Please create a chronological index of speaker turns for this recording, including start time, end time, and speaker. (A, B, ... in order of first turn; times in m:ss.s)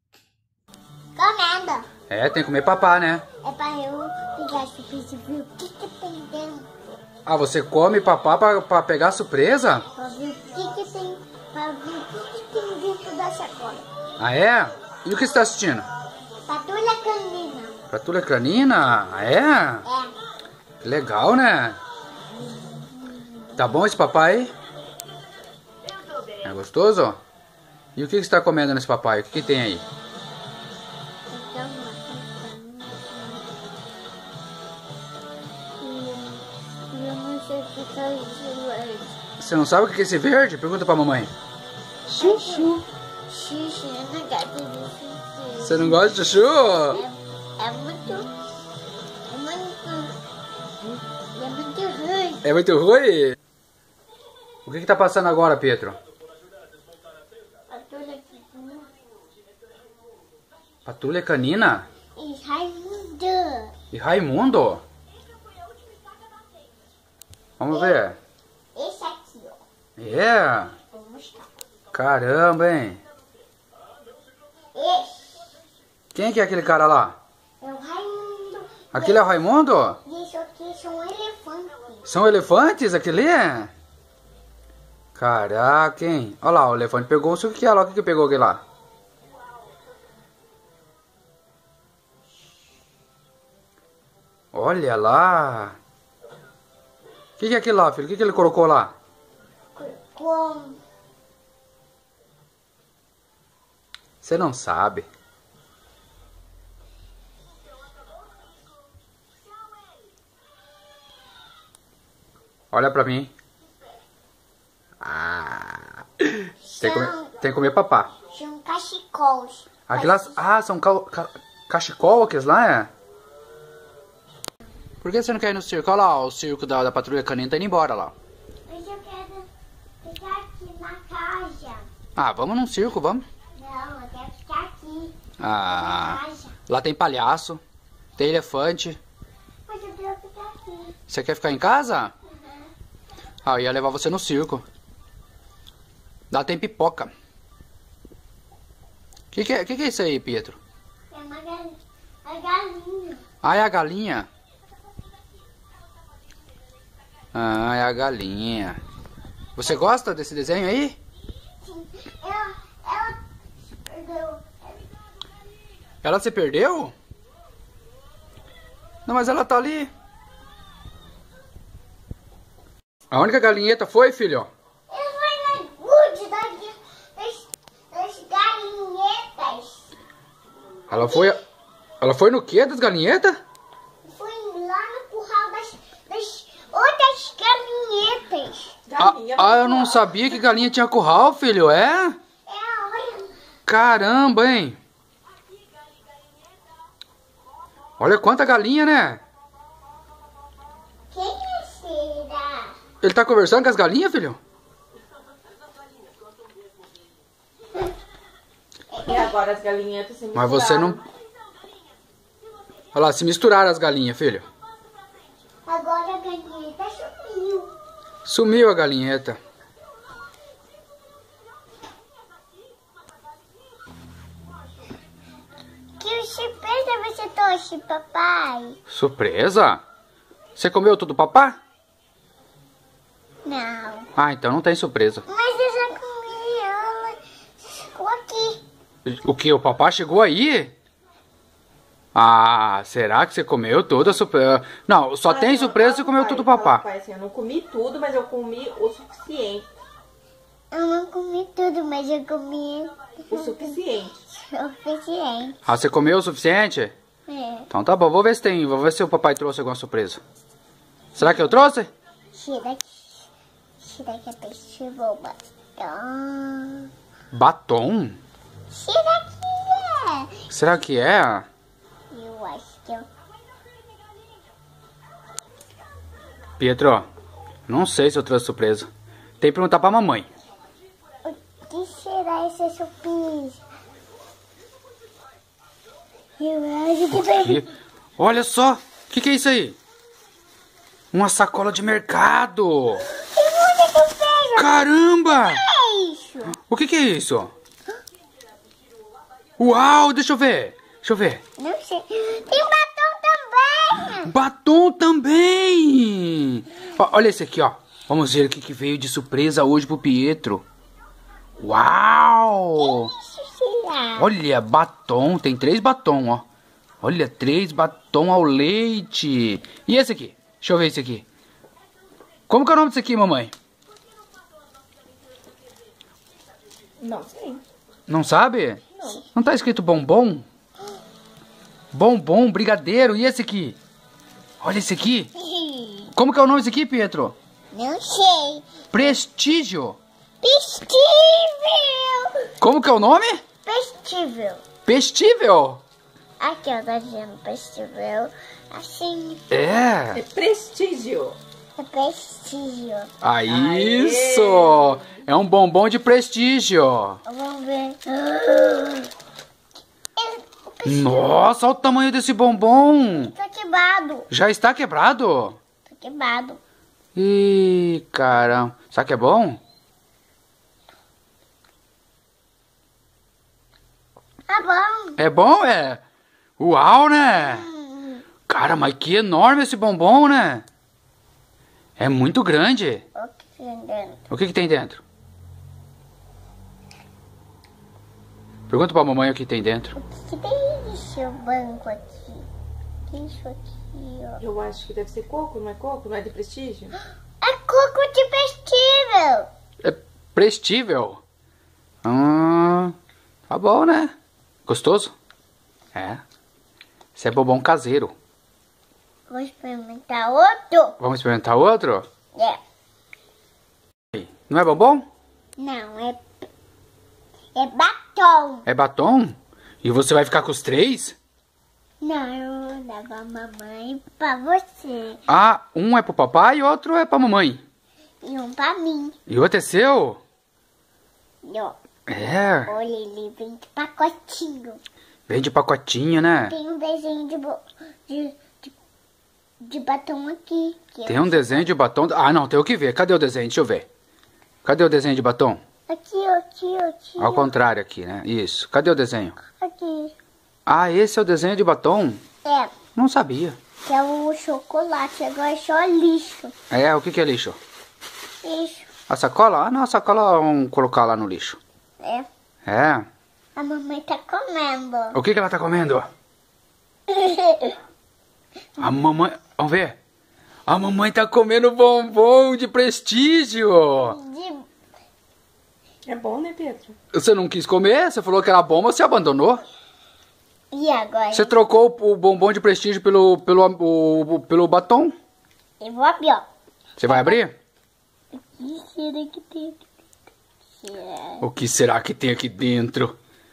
0:01.2-0:01.9 A
0:02.1-0:03.2 B
0:03.4-0:06.7 A
0:07.2-0:09.9 B
0:10.0-0:13.9 A
0:14.2-0:15.8 B
0:16.5-0:17.8 A
0:17.9-0:19.8 B
0:19.8-0:20.1 A
0:20.8-0:21.8 B
0:22.7-0:23.6 A
0:23.6-0:24.5 B
0:26.4-0:27.2 B
0:28.0-0:29.8 B
0:31.3-0:33.5 A
0:35.8-0:39.1 A
0:39.4-0:41.3 B
0:42.1-0:42.8 A
0:42.1-0:42.7 C
0:42.3-0:42.6 B
0:43.3-0:46.0 A
0:45.6-0:47.0 B
0:46.9-0:48.3 A
0:49.3-0:50.2 A
0:51.4-0:52.4 A
0:52.4-0:53.4 B
0:54.6-0:56.0 B
0:57.7-0:58.9 A
1:00.8-1:01.9 B
1:02.2-1:03.7 A
1:03.9-1:04.8 B
1:07.6-1:08.2 B
1:07.7-1:08.0 A
1:08.7-1:09.6 A
1:10.0-1:10.7 B
1:10.9-1:11.5 A
1:11.9-1:13.0 B
1:14.7-1:15.4 A
1:16.1-1:17.2 B
1:17.6-1:19.3 A
1:18.9-1:20.0 B
1:20.0-1:22.1 A
1:22.0-1:23.7 B
1:25.2-1:28.6 B
1:34.5-1:35.7 B
1:37.4-1:38.9 B
1:39.7-1:40.8 A
1:44.2-1:45.0 B
1:52.7-1:53.3 B
1:55.0-1:58.1 B
1:56.6-1:57.3 A
1:58.3-2:00.4 A
1:59.9-2:02.9 B
2:05.0-2:08.1 B
2:08.7-2:09.5 A
2:10.0-2:11.8 A
2:12.2-2:13.2 B
2:13.6-2:16.6 A
2:15.4-2:17.6 B
2:18.2-2:19.0 B
2:19.7-2:20.9 A
2:21.1-2:22.1 B
2:22.3-2:22.7 A
2:23.4-2:24.6 B
2:26.3-2:27.1 B
2:29.3-2:30.6 B
2:31.1-2:33.2 A
2:33.4-2:34.3 B
2:37.3-2:38.8 B
2:39.6-2:41.0 B
2:41.6-2:43.2 A
2:43.8-2:44.9 A
2:46.0-2:46.9 B
2:49.0-2:49.9 B
2:53.1-2:54.5 B
2:54.9-2:59.9 A
3:00.9-3:01.4 B
3:01.0-3:01.3 A
3:02.0-3:03.4 B
3:04.0-3:08.8 A
3:08.9-3:10.1 C
3:09.0-3:12.2 B
3:12.4-3:13.4 A
3:13.7-3:14.8 B
3:18.0-3:19.2 B
3:21.1-3:22.7 A
3:23.0-3:24.4 B
3:28.9-3:29.3 A
3:29.0-3:31.0 C
3:30.3-3:31.0 B
3:32.9-3:34.4 B
3:35.6-3:37.7 A
3:38.2-3:39.4 B
3:46.0-3:48.8 A
3:48.9-3:49.8 B
3:50.6-3:51.6 B
3:53.4-3:54.1 A
3:54.2-3:55.2 B
3:55.3-3:58.6 A
3:59.0-4:00.7 B
4:02.1-4:06.8 B
4:05.2-4:09.7 C
4:10.7-4:15.6 A
4:13.3-4:14.2 C
4:15.6-4:16.9 B
4:17.3-4:17.7 A
4:17.7-4:20.2 B
4:21.1-4:21.9 B
4:22.3-4:23.3 A
4:23.8-4:26.9 A
4:27.3-4:28.2 B
4:28.7-4:30.3 A
4:30.5-4:31.5 B
4:32.1-4:33.0 A
4:36.6-4:37.0 B
4:37.7-4:38.9 B
4:39.4-4:40.3 B
4:41.2-4:43.6 A
4:46.4-4:47.7 A
4:47.1-4:47.7 B
4:48.2-4:49.8 B
4:51.1-4:53.0 B
4:53.0-4:56.5 A
4:54.6-4:55.6 B
4:56.6-4:57.5 B
4:59.6-5:01.4 B
5:01.6-5:04.3 A
5:04.2-5:10.6 B
5:11.6-5:13.1 B
5:12.8-5:14.3 A
5:14.2-5:16.4 B
5:17.0-5:21.2 B
5:22.5-5:23.5 B
5:27.0-5:27.6 C
5:28.1-5:28.8 B
5:29.0-5:29.2 C
5:29.3-5:30.4 B
5:31.9-5:33.8 B
5:34.6-5:35.3 B
5:35.4-5:36.1 A
5:36.1-5:37.3 B
5:37.7-5:38.7 A
5:38.9-5:40.0 B
5:40.4-5:42.5 A
5:42.6-5:43.4 B
5:43.6-5:44.6 A
5:44.8-5:45.8 B
5:46.4-5:49.4 A
5:49.5-5:50.2 B
5:50.1-5:51.4 C
5:51.8-5:53.1 A
5:53.2-5:57.2 B
5:53.5-5:55.1 C
5:57.2-5:59.1 A
6:00.2-6:01.4 A
6:00.8-6:03.3 B
6:03.2-6:04.3 A
6:04.3-6:05.6 B
6:05.8-6:06.6 A
6:07.1-6:09.6 B
6:14.5-6:15.2 A
6:15.2-6:16.0 B
6:16.6-6:17.6 B
6:17.4-6:18.2 A
6:18.5-6:20.6 B
6:22.0-6:23.0 B
6:23.2-6:24.2 A
6:24.3-6:25.0 B
6:28.7-6:29.9 B
6:30.0-6:32.5 A
6:33.1-6:34.4 A
6:34.4-6:36.9 C
6:37.4-6:39.5 A
6:39.8-6:41.2 B
6:42.0-6:42.9 B
6:43.5-6:44.1 B
6:44.7-6:45.1 B
6:45.9-6:46.2 B
6:47.2-6:48.1 B
6:49.3-6:51.0 A
6:51.0-6:52.0 B
6:52.3-6:52.6 A
6:54.1-6:55.0 B
6:55.6-6:56.5 A
6:57.5-6:58.6 A
6:58.6-7:01.1 B
7:02.0-7:05.2 A
7:05.3-7:07.6 B
7:08.2-7:09.2 A
7:09.3-7:10.2 B
7:11.4-7:11.7 A
7:12.1-7:12.7 B
7:12.6-7:14.8 A
7:15.3-7:16.5 B
7:16.4-7:18.7 A
7:19.6-7:21.7 A
7:21.1-7:23.8 B
7:24.6-7:25.6 B
7:25.9-7:27.5 A
7:27.2-7:29.4 B
7:29.5-7:30.1 A
7:30.7-7:32.2 B
7:32.4-7:32.7 A
7:32.9-7:33.6 B
7:33.8-7:36.5 A
7:36.7-7:37.6 B
7:38.4-7:38.9 A
7:39.1-7:41.6 B
7:42.0-7:42.3 A
7:42.7-7:43.1 B
7:43.6-7:45.2 A
7:45.1-7:46.1 B
7:47.1-7:47.8 A
7:48.8-7:50.0 B
7:50.7-7:54.2 B
7:54.0-7:54.6 A
7:56.1-7:56.9 C
7:57.1-7:59.6 B
8:00.7-8:01.5 A
8:01.3-8:05.1 B
8:05.8-8:06.4 A
8:07.0-8:07.5 B
8:07.0-8:07.4 A
8:08.3-8:09.8 A
8:10.8-8:11.4 A
8:11.4-8:13.1 B